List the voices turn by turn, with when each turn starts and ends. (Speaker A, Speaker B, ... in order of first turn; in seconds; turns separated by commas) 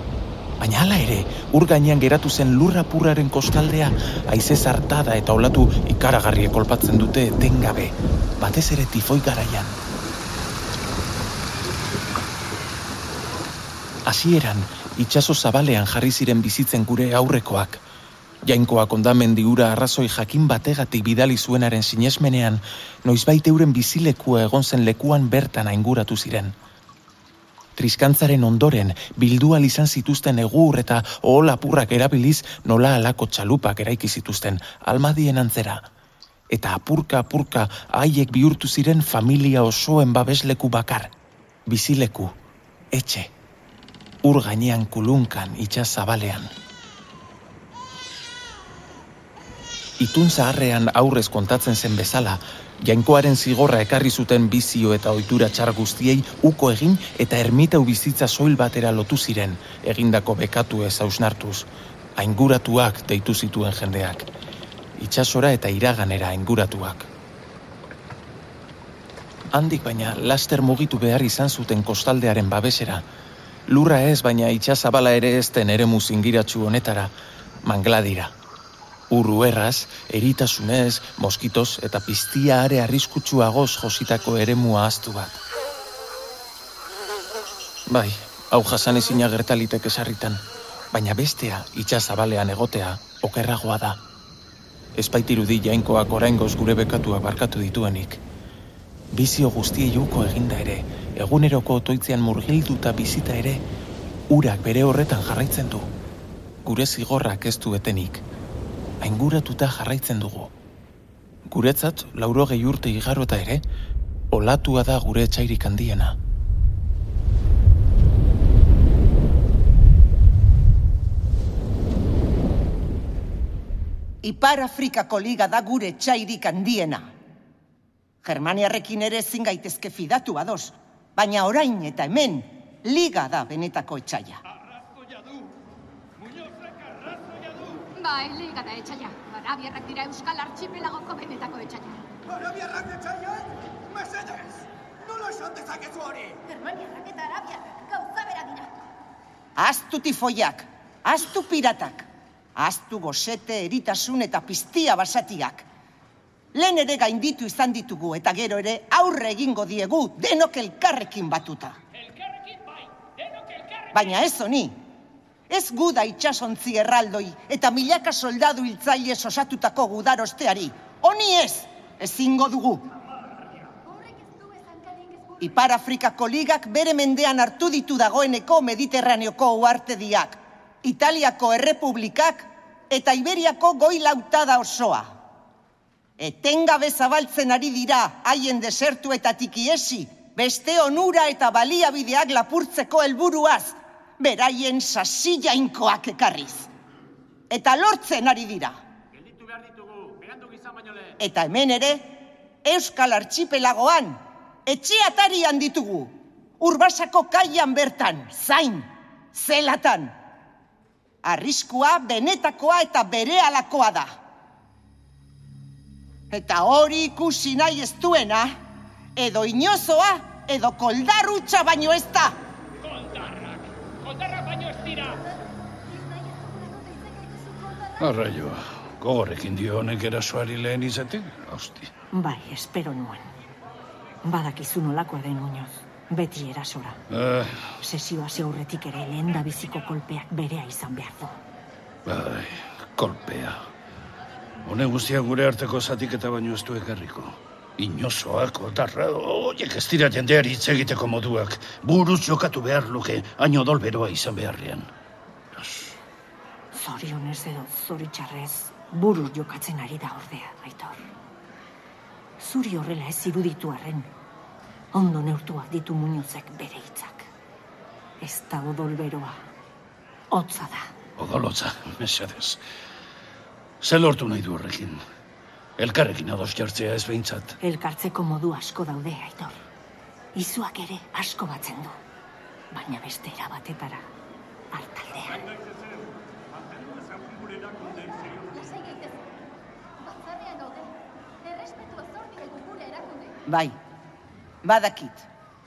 Speaker A: 0.6-9.8, Speaker A: 14.1-17.8, Speaker A: 18.4-26.5, Speaker A: 27.8-35.8, Speaker A: 36.5-41.1, Speaker A: 41.7-42.3, Speaker A: 42.9-43.3, Speaker A: 44.2-46.5, Speaker A: 50.0-64.3, Speaker A: 65.0-67.1, Speaker A: 69.5-73.0, Speaker A: 73.7-77.1, Speaker A: 77.6-78.3, Speaker A: 79.1-85.4, Speaker A: 87.9-90.4, Speaker A: 90.9-94.0, Speaker A: 95.0-98.2, Speaker A: 99.1-103.6, Speaker A: 104.3-105.9, Speaker A: 106.7-108.2, Speaker A: 109.0-110.5, Speaker A: 111.5-113.6, Speaker A: 114.3-116.2, Speaker B: 124.2-127.1, Speaker B: 128.2-134.4, Speaker C: 137.9-142.0, Speaker C: 146.5-148.7, Speaker B: 149.6-155.7, Speaker B: 156.5-161.8, Speaker D: 161.9-164.3, Speaker B: 163.9-164.8, Speaker B: 165.5-172.9, Speaker C: 173.8-175.6, Speaker B: 175.4-185.1, Speaker B: 186.2-196.7, Speaker B: 197.5-198.8, Speaker B: 201.2-210.2, Speaker B: 211.2-214.2, Speaker B: 216.3-218.6, Speaker B: 219.2-222.4, Speaker D: 222.8-225.2, Speaker C: 225.9-228.1, Speaker E: 228.0-231.9, Speaker F: 232.1-233.3, Speaker F: 234.2-237.0, Speaker E: 237.1-237.7, Speaker F: 237.8-241.4, Speaker E: 242.1-243.6, Speaker E: 244.7-254.9, Speaker E: 255.6-255.9, Speaker F: 256.7-261.1, Speaker F: 262.4-264.1, Speaker F: 264.9-267.3, Speaker F: 268.2-269.4, Speaker F: 270.3-270.9, Speaker E: 271.2-272.6, Speaker E: 273.8-275.0, Speaker E: 275.8-277.5, Speaker F: 277.6-279.6, Speaker F: 280.4-282.0, Speaker F: 282.7-284.1, Speaker F: 284.7-285.5, Speaker C: 287.7-289.2, Speaker C: 290.0-290.9, Speaker C: 291.4-293.4, Speaker B: 293.5-293.8, Speaker B: 294.6-295.2